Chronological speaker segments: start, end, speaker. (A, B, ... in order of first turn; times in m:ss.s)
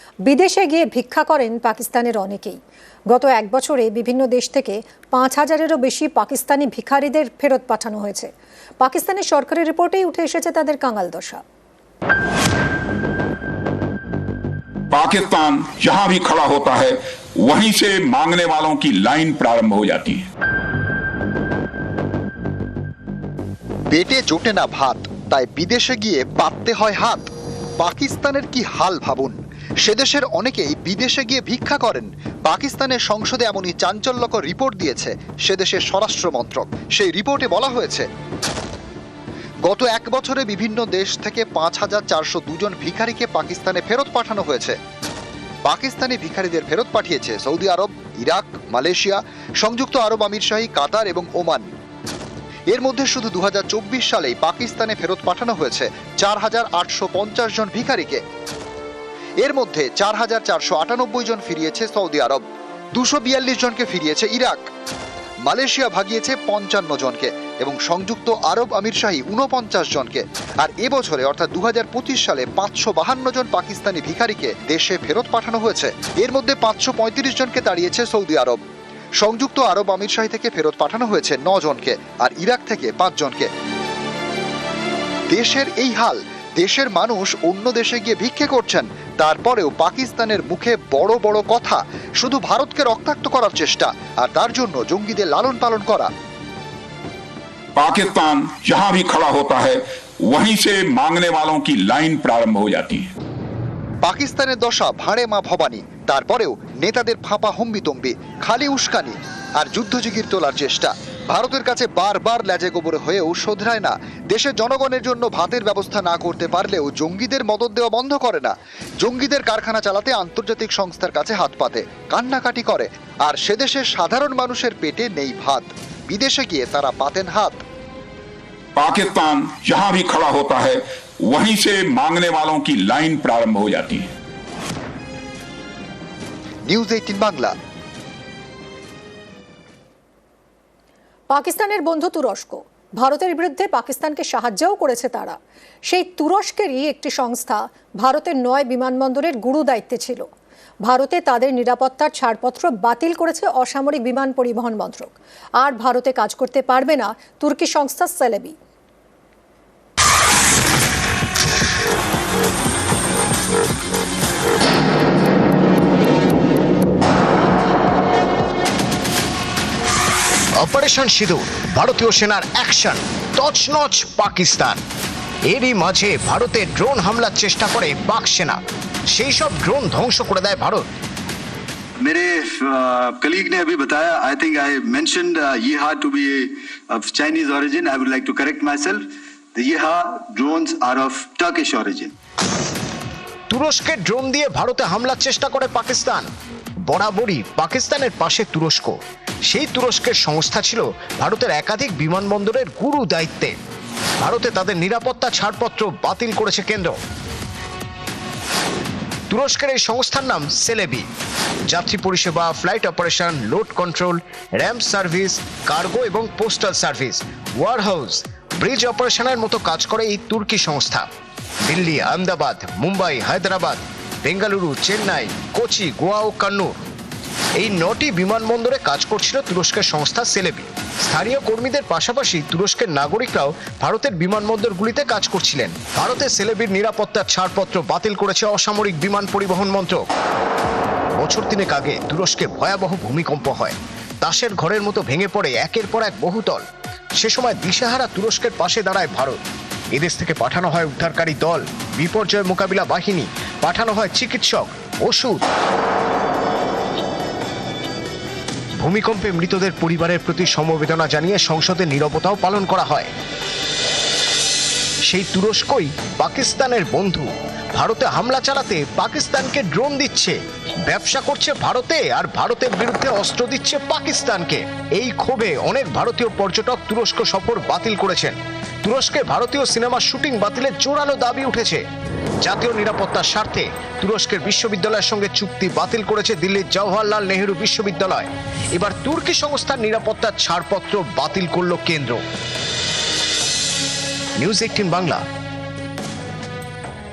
0:00.3-0:02.6 A
0:03.1-0:11.4 A
0:14.9-0:20.3 B
0:23.9-0:38.1 C
0:39.7-0:44.8 C
0:45.6-0:51.7 C
0:52.7-0:58.2 C
0:59.4-1:02.4 C
1:03.0-1:04.6 C
1:05.5-1:18.6 C
1:19.2-1:23.5 C
1:25.3-1:36.1 C
1:37.8-1:43.1 B
1:44.0-2:07.6 C
2:08.8-2:14.1 B
2:16.7-2:17.5 C
2:21.3-2:30.3 A
2:30.8-2:38.6 A
2:50.6-2:54.8 D
2:55.5-3:00.8 D
3:02.0-3:12.2 E
3:13.5-3:16.3 D
3:16.9-3:19.0 D
3:19.5-3:23.6 D
3:24.2-3:27.0 D
3:29.3-3:31.1 D
3:31.7-3:41.1 D
3:41.7-3:46.8 D
3:47.6-4:00.0 D
4:01.2-4:06.6 D
4:07.2-4:09.4 D
4:09.9-4:15.4 D
4:18.8-4:23.1 D
4:25.1-4:41.8 D
4:42.4-4:52.2 D
4:54.4-4:55.2 D